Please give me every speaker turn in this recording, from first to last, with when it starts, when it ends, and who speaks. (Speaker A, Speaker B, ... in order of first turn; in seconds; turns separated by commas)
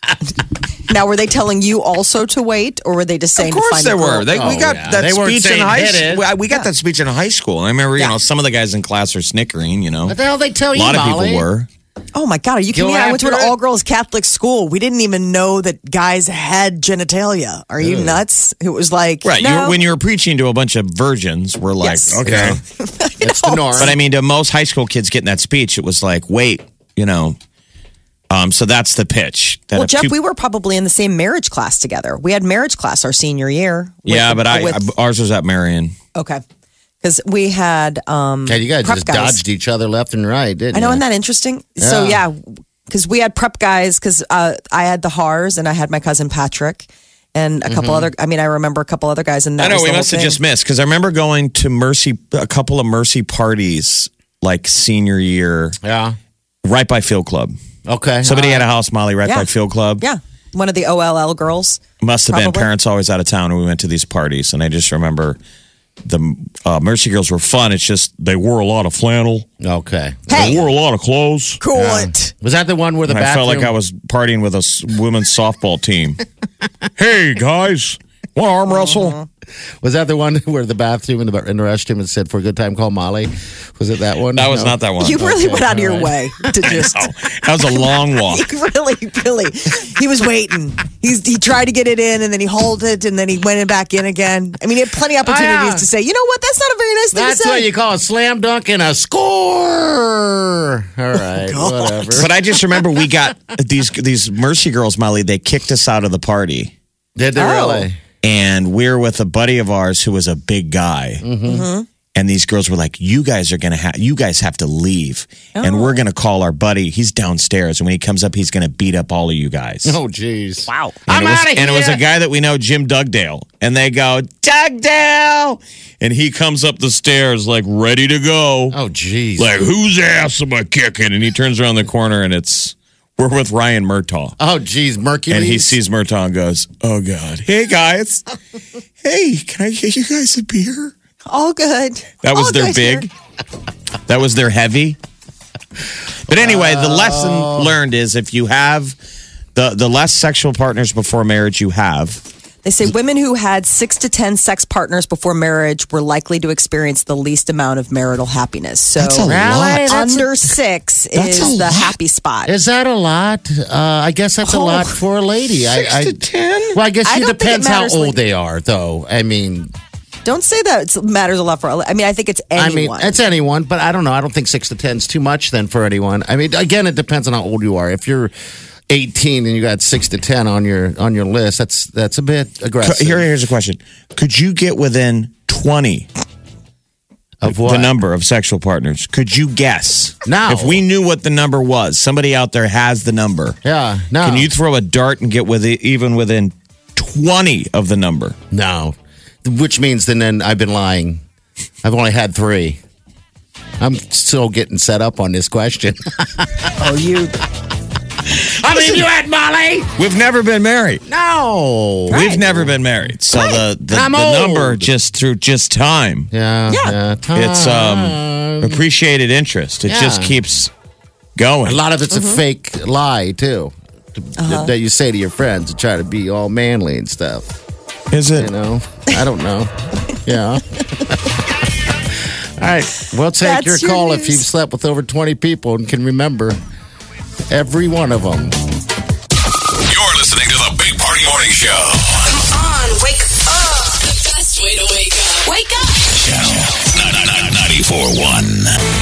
Speaker A: 0.9-4.4, Speaker B: 3.4-10.2, Speaker C: 4.3-6.3, Speaker C: 10.1-11.5, Speaker B: 10.7-11.7, Speaker A: 12.1-19.8, Speaker C: 12.7-13.6, Speaker C: 17.8-18.2, Speaker B: 19.2-22.6, Speaker A: 21.8-22.2, Speaker C: 22.2-22.6, Speaker A: 22.8-23.9, Speaker C: 23.2-24.0, Speaker B: 23.8-27.4, Speaker B: 28.3-30.1, Speaker A: 29.8-34.9, Speaker B: 34.1-36.0, Speaker A: 36.1-36.4, Speaker A: 37.0-39.4, Speaker C: 38.5-41.0, Speaker A: 40.7-50.4, Speaker C: 41.8-42.2, Speaker C: 47.7-48.1, Speaker B: 49.6-55.8, Speaker C: 55.8-56.2, Speaker B: 56.6-57.6, Speaker C: 57.9-58.6, Speaker B: 58.2-60.0, Speaker A: 60.0-62.7, Speaker B: 62.0-65.4, Speaker B: 66.0-69.5, Speaker C: 69.6-70.7, Speaker A: 70.3-70.6, Speaker B: 70.3-71.6, Speaker A: 71.6-72.3, Speaker C: 71.7-73.7, Speaker B: 73.1-76.2, Speaker B: 77.0-79.2, Speaker A: 78.7-79.3, Speaker C: 79.8-86.5, Speaker B: 84.3-85.2, Speaker A: 85.0-97.7, Speaker B: 86.6-88.5, Speaker C: 95.2-95.9, Speaker C: 97.1-102.3, Speaker A: 101.2-102.2, Speaker B: 102.2-106.7, Speaker C: 107.2-108.0, Speaker A: 107.4-107.9, Speaker B: 108.2-111.2, Speaker C: 111.2-111.7, Speaker A: 111.5-111.9, Speaker B: 112.2-120.0, Speaker A: 115.5-116.0, Speaker C: 119.8-122.0, Speaker B: 121.1-128.8, Speaker C: 128.7-129.6, Speaker B: 129.4-134.3, Speaker C: 134.4-135.8, Speaker B: 135.3-138.2, Speaker B: 139.0-140.9, Speaker A: 141.3-143.1, Speaker B: 142.2-143.1, Speaker B: 144.1-145.0, Speaker B: 146.3-148.9, Speaker C: 146.3-147.8, Speaker B: 149.6-152.2, Speaker A: 152.6-159.3, Speaker B: 159.0-160.3, Speaker C: 159.2-160.3, Speaker A: 159.9-162.5, Speaker B: 161.2-162.0, Speaker C: 162.5-166.2, Speaker A: 164.4-165.0, Speaker B: 165.7-166.8, Speaker C: 166.7-169.7, Speaker A: 167.0-168.2, Speaker A: 170.2-173.1, Speaker C: 172.6-178.3, Speaker C: 178.9-183.3, Speaker B: 182.8-186.1, Speaker C: 187.4-187.9, Speaker B: 187.4-193.6, Speaker C: 190.2-190.8, Speaker C: 193.6-194.5, Speaker B: 194.2-198.4, Speaker C: 198.5-201.2, Speaker C: 201.8-202.8, Speaker C: 203.8-206.7, Speaker A: 206.8-207.3, Speaker C: 208.2-209.9, Speaker B: 210.0-211.0, Speaker C: 211.1-212.8, Speaker A: 212.1-212.4, Speaker B: 212.1-216.3, Speaker C: 213.9-214.9, Speaker C: 216.3-218.8, Speaker A: 216.7-217.0, Speaker B: 217.3-220.7, Speaker C: 219.9-220.4, Speaker B: 221.4-221.8, Speaker C: 221.7-227.5, Speaker A: 222.1-222.4, Speaker A: 224.4-224.7, Speaker B: 228.1-228.5, Speaker C: 228.3-231.2, Speaker C: 232.1-236.6, Speaker A: 233.4-234.4, Speaker C: 237.5-238.6, Speaker D: 239.9-242.3, Speaker E: 242.3-246.2, Speaker D: 246.2-248.8